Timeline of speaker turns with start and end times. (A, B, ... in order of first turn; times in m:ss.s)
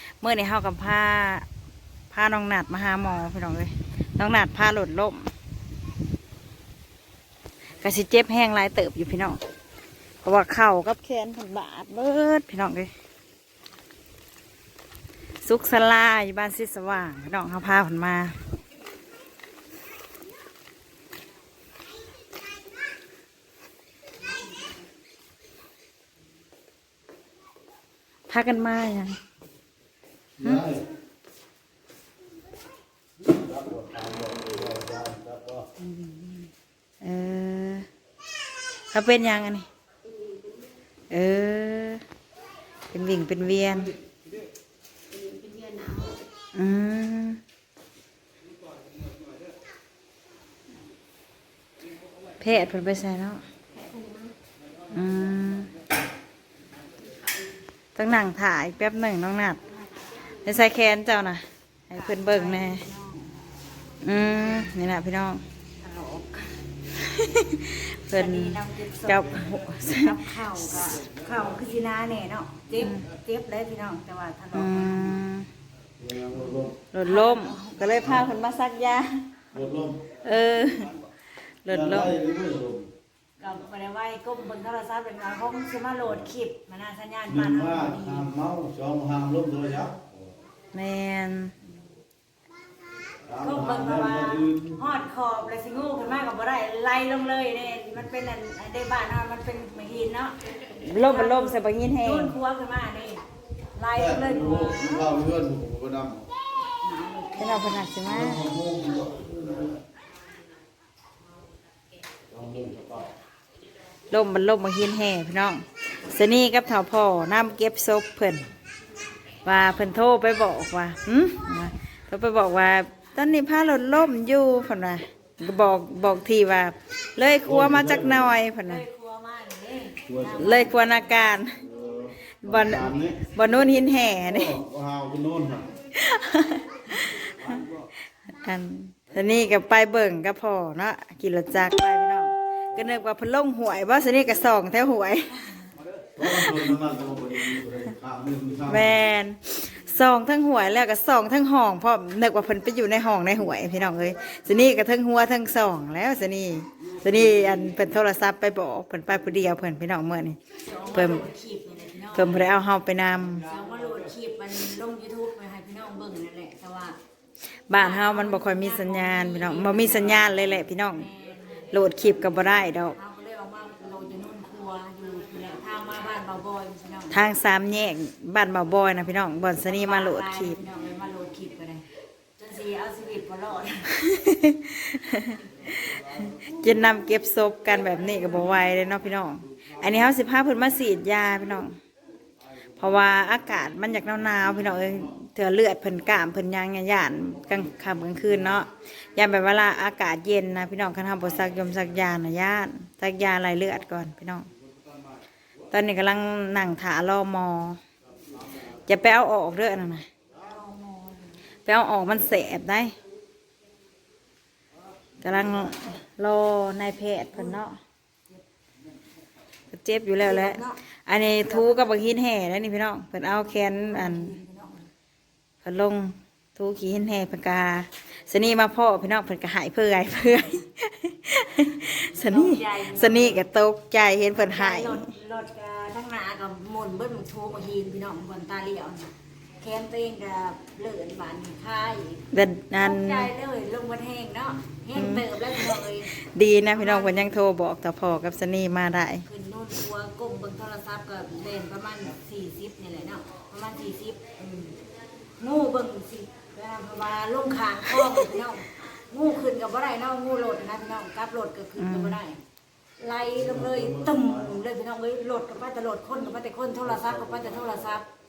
0:00.2-0:01.5 A
0:02.1-0:05.3 A
0:07.8-0:09.4 A
0:10.2-0:12.9 A
0:15.4-0:18.3 A
0:28.3-0:29.2 A
0:30.4-0:30.7 A
0:30.4-0:30.8 B
0:33.2-0:35.7 B
0:35.8-0:36.5 C
0:37.0-0:37.9 A
0:38.9-0:39.6 A
0:41.1-0:42.0 A
0:42.9-0:43.9 A
0:45.2-0:46.2 C
0:46.5-0:47.4 A
0:52.4-0:53.4 A
0:54.9-0:55.7 A
0:57.9-0:59.6 A
1:00.4-1:02.8 A
1:01.9-1:03.4 C
1:04.0-1:05.4 A
1:05.8-1:06.6 C
1:06.9-1:10.2 A
1:08.1-1:15.2 C
1:12.8-1:13.0 A
1:14.5-1:15.5 A
1:16.0-1:16.7 B
1:16.4-1:18.1 C
1:16.9-1:19.2 A
1:19.5-1:20.2 B
1:20.2-1:21.0 A
1:21.6-1:22.2 A
1:21.7-1:22.9 B
1:23.4-1:28.3 C
1:27.3-1:30.0 B
1:30.7-1:31.5 A
1:33.3-1:34.8 B
1:33.4-1:45.2 C
1:40.8-1:42.4 A
1:44.0-1:46.3 B
1:46.8-1:48.0 C
1:47.4-1:48.5 A
1:48.1-1:49.8 B
1:52.3-1:53.1 B
1:54.1-1:58.5 A
1:59.4-2:08.8 A
2:07.4-2:08.3 B
2:08.6-2:11.4 C
2:10.1-2:10.4 B
2:10.3-2:11.6 A
2:11.7-2:13.2 B
2:12.4-2:14.6 A
2:14.2-2:15.8 B
2:15.9-2:17.6 A
2:18.3-2:25.4 A
2:26.2-2:29.0 B
2:26.2-2:26.8 A
2:28.6-2:41.3 A
2:40.6-2:42.5 C
2:42.1-2:43.5 A
2:43.4-2:47.0 C
2:47.7-2:51.1 A
2:47.7-2:50.4 C
2:50.9-2:51.7 C
2:51.7-2:53.0 A
2:52.3-2:57.2 C
2:57.1-3:00.6 A
2:59.6-3:03.9 C
3:03.9-3:11.7 A
3:12.8-3:24.5 A
3:25.7-3:27.8 A
3:28.8-3:30.1 A
3:30.4-3:31.4 C
3:31.6-3:32.9 A
3:35.2-3:37.8 A
3:39.7-3:44.4 A
3:40.2-3:42.0 C
3:43.8-3:44.9 C
3:45.6-3:55.1 A
3:52.0-3:53.4 C
3:54.3-4:06.1 C
4:02.3-4:03.3 A
4:04.9-4:09.2 A
4:06.6-4:07.3 C
4:09.2-4:14.8 C
4:15.4-4:22.4 C
4:17.9-4:18.3 A
4:21.8-4:22.2 A
4:23.0-4:28.0 C